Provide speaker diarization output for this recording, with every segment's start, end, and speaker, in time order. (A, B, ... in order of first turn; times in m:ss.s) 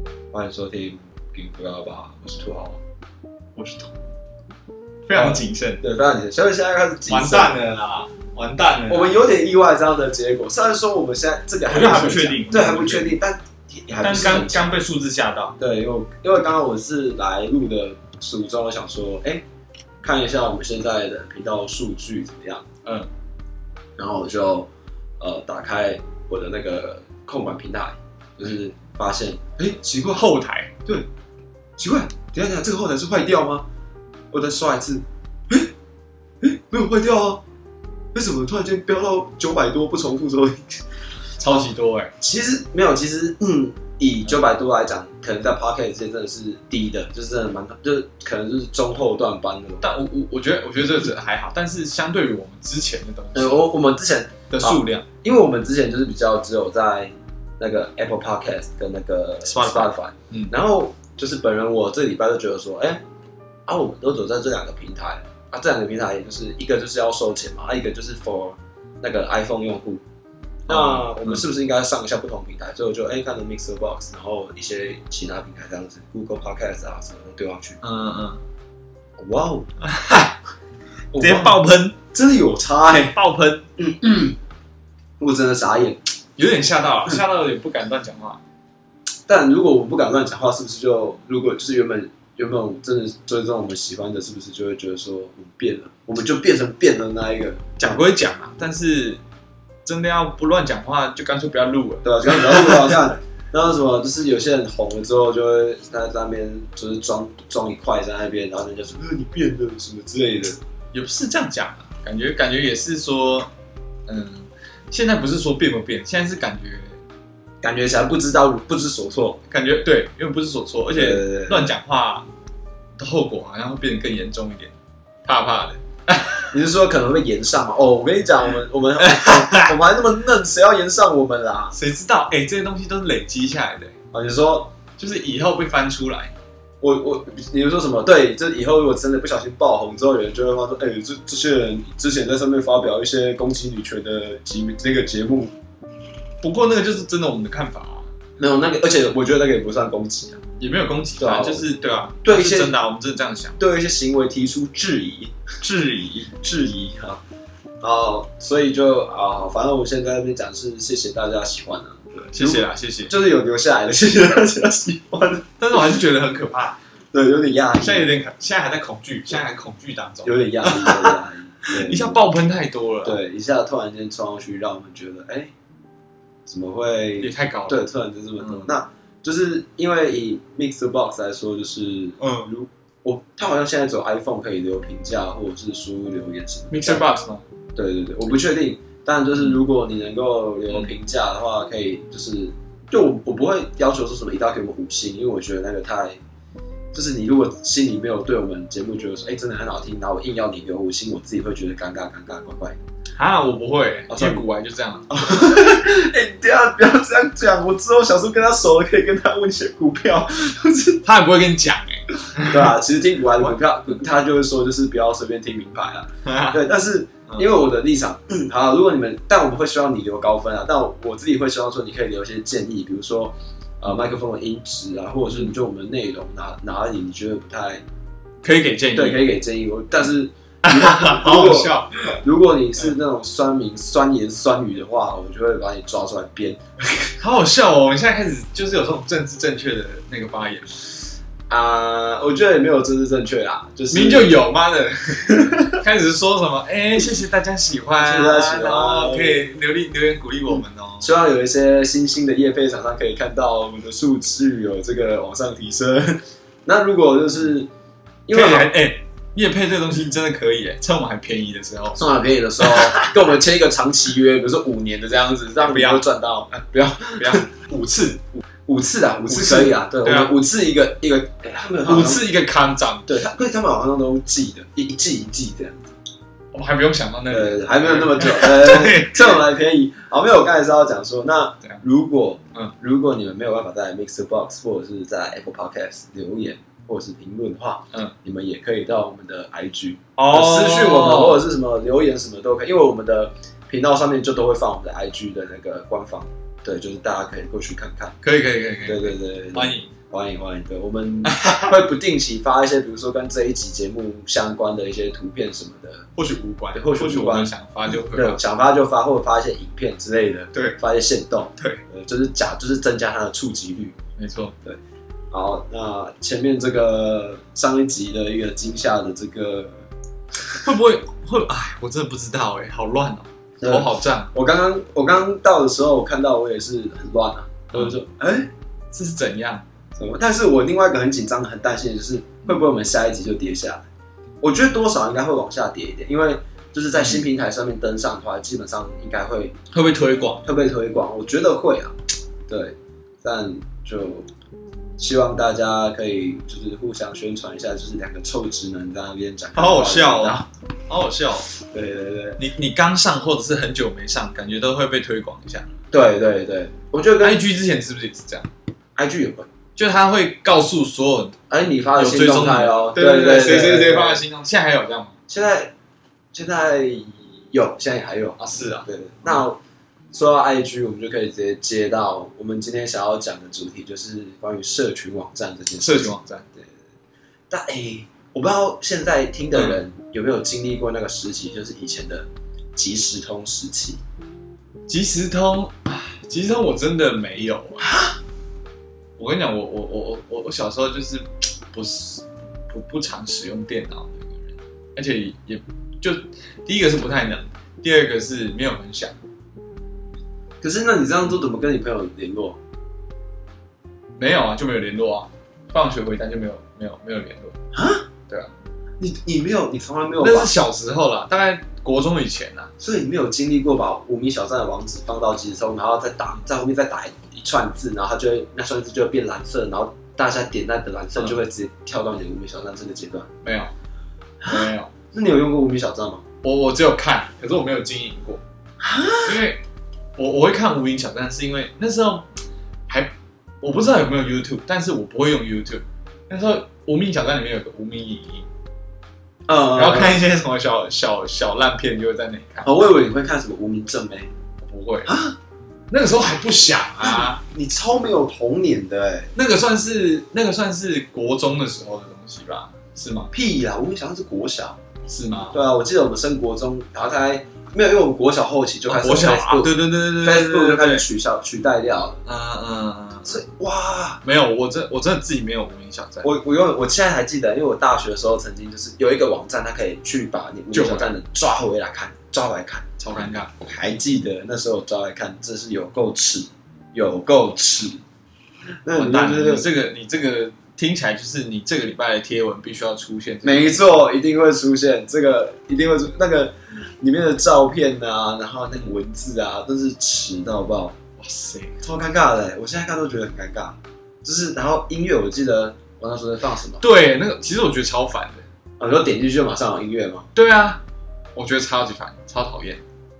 0:00.3-0:02.8 A
0:03.6-0:03.9 B
0:05.1-0:05.8 B
0:05.1-0:07.6 A
0:07.1-0:09.1 B
0:08.9-0:14.6 A
0:11.7-0:13.2 B
0:14.0-0:15.6 B
0:15.6-0:19.4 A
0:20.0-0:22.7 A
0:22.8-0:23.1 B
0:24.0-0:24.7 A
0:25.2-0:30.2 A
0:30.1-0:30.7 B
0:31.8-0:33.7 A
0:34.3-0:35.7 A
0:36.4-0:37.4 A
0:38.1-0:40.8 A
0:41.4-0:42.1 B
0:42.2-0:49.9 A
0:49.8-0:53.7 B
0:53.3-1:03.0 A
0:54.5-0:55.0 B
0:59.4-1:00.5 B
1:03.7-1:10.0 A
1:10.7-1:11.4 B
1:10.7-1:17.8 A
1:17.8-1:18.4 B
1:19.2-1:19.7 A
1:19.8-1:20.4 B
1:21.1-1:23.2 A
1:21.2-1:22.0 B
1:23.1-1:23.7 B
1:23.8-1:24.4 A
1:25.2-1:26.0 A
1:26.4-1:28.4 B
1:29.3-1:37.8 A
1:37.8-1:39.2 B
1:39.8-1:42.9 B
1:42.0-1:50.6 A
1:50.9-1:53.5 B
1:54.1-1:57.0 B
1:57.6-1:59.4 A
1:59.5-2:02.3 B
2:00.9-2:01.7 A
2:03.0-2:04.7 B
2:05.2-2:06.5 B
2:06.5-2:11.8 A
2:09.0-2:09.7 B
2:11.7-2:14.0 B
2:14.1-2:14.7 A
2:15.0-2:16.3 B
2:16.8-2:25.5 A
2:26.4-2:28.1 B
2:28.4-2:30.4 A
2:30.6-2:33.6 B
2:31.2-2:31.7 A
2:32.2-2:32.8 A
2:33.6-2:35.4 A
2:35.6-2:36.3 B
2:36.4-2:37.2 A
2:37.8-2:45.8 A
2:42.3-2:43.1 B
2:45.6-2:46.8 B
2:47.1-2:48.1 A
2:47.8-2:51.2 B
2:50.2-2:52.2 A
2:51.7-2:53.2 B
2:53.0-2:55.5 A
2:56.5-3:07.0 A
2:57.2-2:57.8 B
2:58.4-2:58.7 B
3:02.2-3:02.5 B
3:06.7-3:07.4 B
3:07.8-3:16.2 A
3:10.7-3:10.9 B
3:16.9-3:22.8 A
3:23.1-3:25.1 B
3:24.1-3:24.4 A
3:25.1-3:31.0 A
3:31.0-3:32.7 B
3:32.3-3:47.8 A
3:36.2-3:36.6 B
3:48.4-3:49.3 B
3:48.9-3:57.1 A
3:50.6-3:52.2 B
3:57.2-4:01.0 B
4:01.5-4:04.4 A
4:03.9-4:11.1 B
4:05.4-4:05.8 A
4:08.0-4:09.4 A
4:11.0-4:17.7 A
4:18.3-4:18.7 A
4:18.3-4:22.0 B
4:22.0-4:27.5 A
4:22.6-4:23.1 B
4:25.6-4:26.0 B
4:27.2-4:28.4 B
4:28.7-4:32.2 A
4:29.3-4:30.3 B
4:31.8-4:33.1 B
4:33.1-4:35.9 A
4:36.5-4:39.4 B
4:37.3-4:58.2 A
4:50.2-4:51.5 B
4:58.2-4:59.9 B
4:58.8-5:06.1 A
5:01.2-5:01.8 B
5:06.2-5:08.4 B
5:06.7-5:14.0 A
5:11.6-5:11.8 B
5:14.2-5:14.6 B
5:15.3-5:19.8 A
5:20.6-5:24.3 B
5:23.6-5:28.5 A
5:28.9-5:29.6 B
5:30.0-5:33.9 A
5:34.4-5:39.6 A
5:37.0-5:37.2 B
5:39.7-5:40.4 B
5:40.4-5:41.9 A
5:42.5-5:44.3 A
5:45.0-5:50.5 A
5:49.6-5:51.5 B
5:51.7-5:52.4 A
5:52.4-5:55.7 B
5:55.9-5:57.4 A
5:57.2-5:58.5 B
5:59.0-5:59.5 A
5:59.8-6:01.4 B
6:01.5-6:04.2 A
6:02.0-6:05.2 B
6:05.3-6:05.7 A
6:06.3-6:09.6 A
6:08.4-6:09.4 B
6:10.1-6:16.7 A
6:15.8-6:16.5 B
6:17.5-6:24.0 A
6:19.5-6:19.8 B
6:24.9-6:27.9 B
6:27.8-6:28.2 A
6:29.2-6:39.2 B
6:40.6-6:42.6 A
6:44.2-6:47.6 B
6:47.7-6:48.1 A
6:49.0-6:50.5 A
6:50.2-6:52.7 B
6:52.8-7:03.3 A
7:03.4-7:03.7 B
7:04.4-7:06.2 A
7:04.5-7:04.9 B
7:06.4-7:08.4 B
7:08.8-7:09.4 A
7:09.2-7:09.6 B
7:10.2-7:12.3 B
7:12.9-7:18.5 B
7:19.5-7:20.2 A
7:19.7-7:23.0 B
7:22.6-7:24.3 A
7:24.6-7:25.1 B
7:25.0-7:25.4 A
7:25.9-7:27.4 B
7:27.0-7:29.3 A
7:29.4-7:33.3 B
7:33.3-7:34.8 A
7:35.1-7:35.6 B
7:35.5-7:42.2 A
7:38.9-7:41.0 B
7:42.2-7:43.4 B
7:43.2-7:44.2 A
7:44.2-7:46.3 B
7:46.2-7:58.0 A
7:50.7-7:51.1 B
7:53.0-7:53.5 B
7:58.8-7:59.7 A
7:59.0-8:03.8 B
8:03.4-8:11.0 A
8:11.2-8:11.8 B
8:11.8-8:16.8 A
8:16.8-8:18.4 B
8:18.8-8:20.3 A
8:20.4-8:20.8 B
8:21.4-8:22.8 B